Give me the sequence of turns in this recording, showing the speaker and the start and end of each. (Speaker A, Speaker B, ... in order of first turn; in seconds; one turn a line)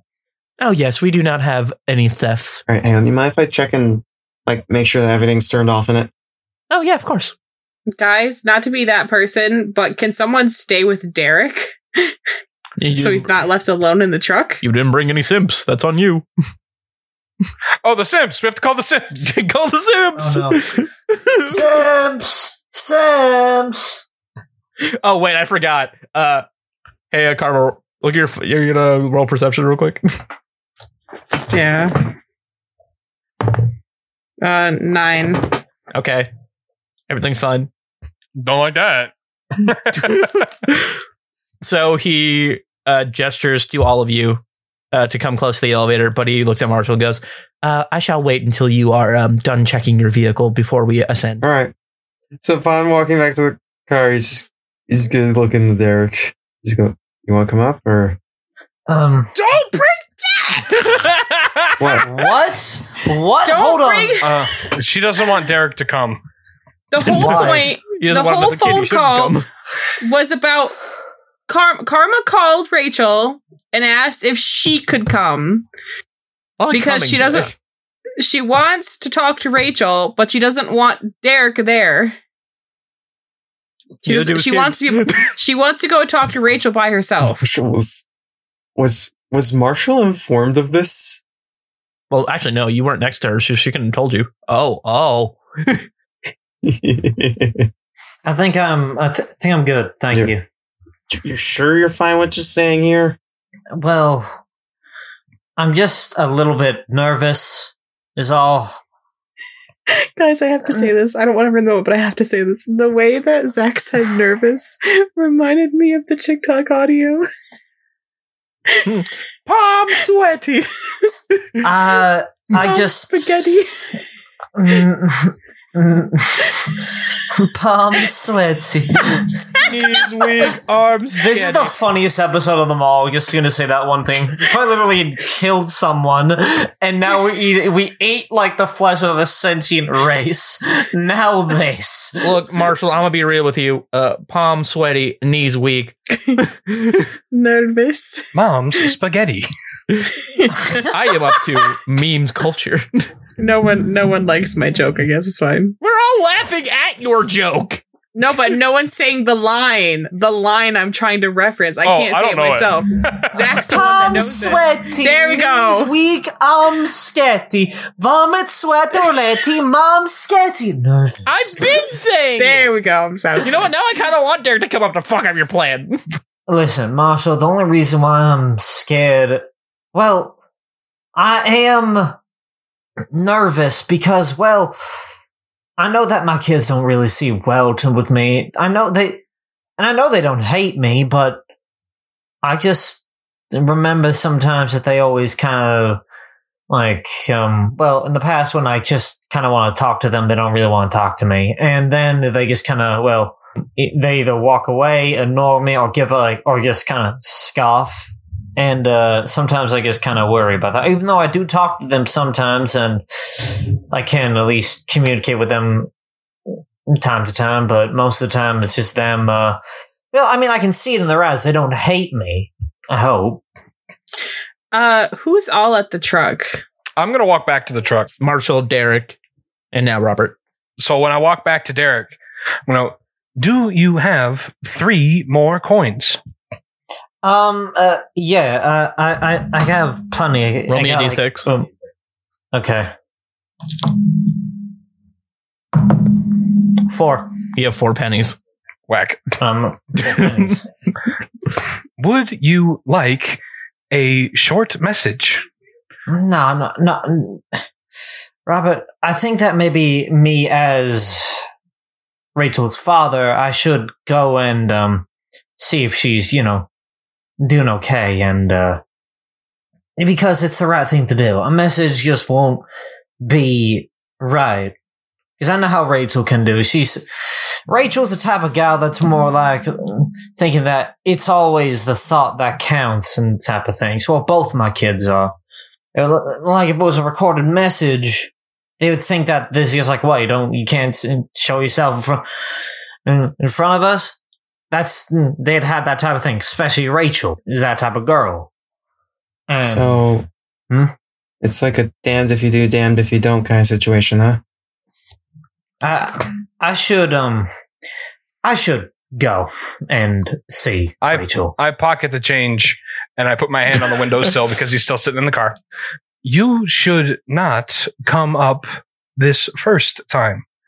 Speaker A: 0.6-2.6
Speaker B: 2.7-6.1
Speaker A: 6.7-7.3
Speaker C: 8.0-12.1
Speaker A: 12.8-13.3
Speaker C: 13.0-14.6
Speaker A: 14.6-16.3
Speaker D: 17.8-19.3
Speaker A: 19.2-21.6
Speaker E: 20.1-20.6
Speaker E: 21.4-24.0
Speaker A: 24.8-26.4
Speaker A: 27.1-30.0
Speaker C: 31.5-32.1
Speaker C: 34.4-35.6
Speaker A: 35.9-36.3
Speaker A: 37.1-37.7
Speaker D: 38.4-40.5
Speaker A: 40.0-40.9
Speaker A: 41.6-51.4
Speaker B: 51.4-51.7
Speaker B: 52.4-58.2
Speaker E: 58.9-59.3
Speaker A: 59.4-59.9
Speaker A: 60.6-62.0
Speaker B: 61.8-62.1
Speaker E: 62.0-64.2
Speaker C: 63.4-64.7
Speaker D: 64.2-66.2
Speaker C: 66.9-69.3
Speaker E: 67.0-67.7
Speaker A: 67.0-69.5
Speaker C: 70.0-70.8
Speaker C: 71.5-75.7
Speaker A: 76.6-77.5
Speaker C: 76.7-77.5
Speaker C: 78.2-82.2
Speaker A: 84.0-85.3
Speaker C: 84.0-87.4
Speaker B: 87.4-88.0
Speaker B: 88.8-91.2
Speaker A: 92.1-95.8
Speaker B: 96.6-97.7
Speaker E: 98.2-100.4
Speaker B: 101.1-103.2
Speaker E: 103.7-104.4
Speaker E: 105.6-108.8
Speaker C: 109.9-117.3
Speaker A: 118.8-120.7
Speaker A: 121.3-121.6
Speaker E: 121.6-123.1
Speaker C: 122.6-123.8
Speaker E: 124.5-129.3
Speaker A: 129.6-131.7
Speaker E: 131.2-142.4
Speaker A: 142.2-146.9
Speaker C: 146.1-148.9
Speaker D: 148.3-149.5
Speaker C: 150.2-151.5
Speaker A: 150.8-153.1
Speaker C: 153.4-155.7
Speaker A: 155.8-157.8
Speaker C: 158.1-165.9
Speaker D: 161.8-163.5
Speaker E: 163.7-171.6
Speaker A: 171.2-172.7
Speaker C: 172.4-173.6
Speaker A: 173.4-176.0
Speaker E: 176.5-180.3
Speaker E: 181.1-182.2
Speaker E: 183.1-184.8
Speaker E: 185.8-189.2
Speaker E: 189.8-191.4
Speaker E: 192.4-196.0
Speaker E: 196.7-215.9
Speaker E: 216.9-219.6
Speaker E: 220.1-223.4
Speaker C: 224.7-226.6
Speaker D: 227.0-228.1
Speaker A: 228.2-229.2
Speaker A: 229.7-230.3
Speaker D: 230.8-236.2
Speaker E: 237.2-241.7
Speaker A: 240.7-241.4
Speaker E: 242.5-242.9
Speaker E: 245.9-246.1
Speaker E: 246.9-247.3
Speaker A: 247.5-248.4
Speaker D: 248.9-249.3
Speaker E: 249.4-250.7
Speaker A: 250.0-250.5
Speaker D: 252.0-255.4
Speaker E: 256.1-257.6
Speaker E: 258.4-261.4
Speaker E: 262.3-265.1
Speaker E: 265.6-266.7
Speaker E: 267.4-268.8
Speaker E: 270.0-272.6
Speaker E: 273.2-274.7
Speaker E: 275.4-277.1
Speaker E: 277.7-285.3
Speaker E: 285.9-292.2
Speaker E: 293.0-294.2
Speaker E: 294.7-298.5
Speaker E: 299.5-300.0
Speaker B: 299.6-300.3
Speaker B: 301.4-304.4
Speaker E: 305.8-307.5
Speaker E: 308.4-311.5
Speaker D: 311.0-315.6
Speaker D: 316.2-320.4